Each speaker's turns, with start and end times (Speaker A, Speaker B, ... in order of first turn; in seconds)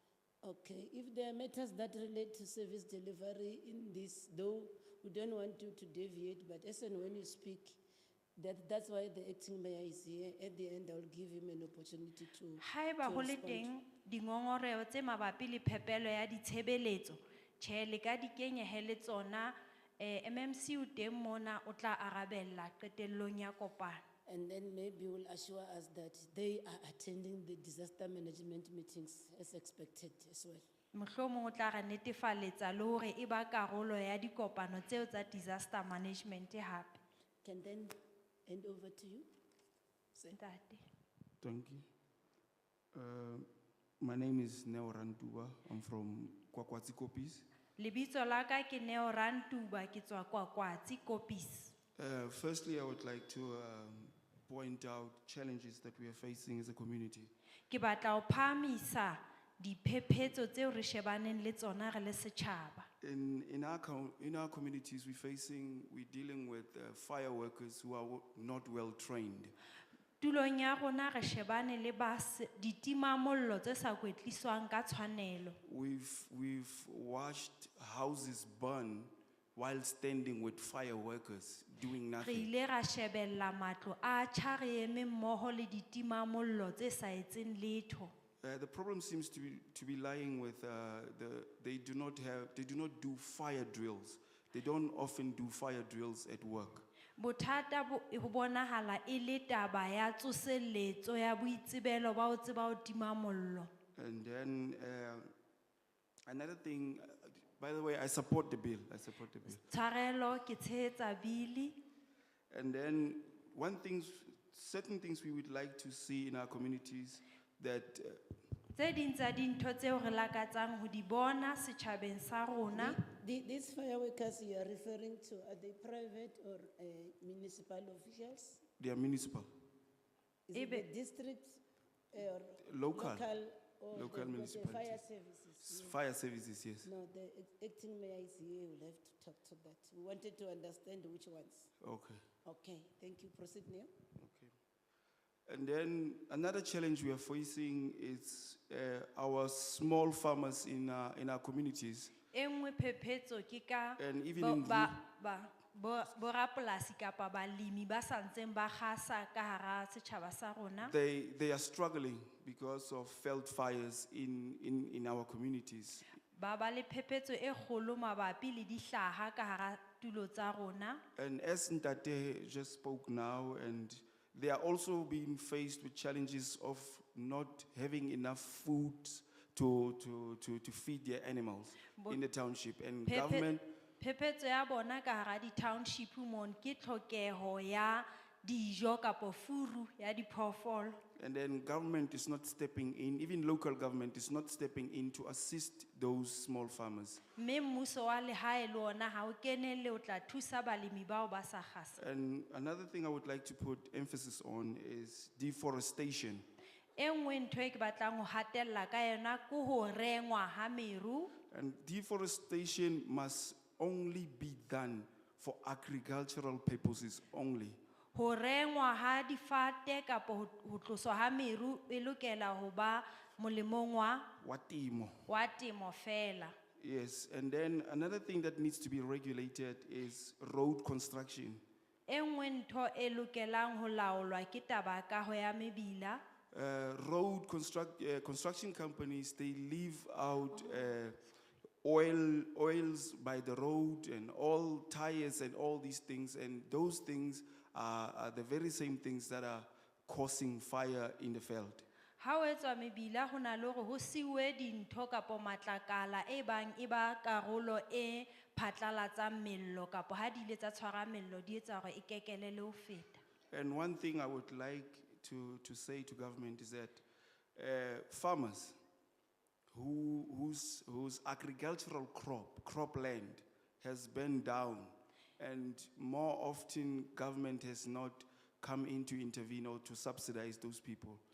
Speaker A: 0.4-7.8, 8.4-13.7, 24.3-30.6, 37.4-37.9, 38.5-39.3, 122.7-128.6, 130.5-136.0, 136.8-141.7, 142.4-143.9
Speaker B: 12.6-24.0, 30.9-37.0, 40.3-40.8, 47.8-51.7, 57.7-62.9, 70.2-75.6, 82.2-88.1, 97.2-103.7, 109.6-111.8, 118.7-123.0, 130.5-130.8, 152.3-160.9, 166.3-171.0, 183.1-191.0, 197.3-202.0, 207.0-211.3, 218.1-224.3, 225.3-226.6, 232.1-236.2, 252.2-263.2
Speaker C: 41.4-41.9, 42.9-43.5, 44.0-47.5, 52.0-57.3, 63.0-69.5, 75.6-82.5, 88.4-96.8, 104.0-105.3, 106.3-109.6, 112.5-118.2, 128.8-129.5, 132.6-133.3, 133.9-135.0, 135.6-136.9, 141.8-142.2, 144.2-144.5, 145.5-152.1, 154.0-155.0, 160.8-166.1, 171.2-183.7, 191.2-197.2, 202.0-206.4, 211.5-217.8, 224.4-225.2, 226.8-231.6, 236.5-241.2, 241.8-251.8, 263.5-267.0, 267.6-268.8, 269.7-281.2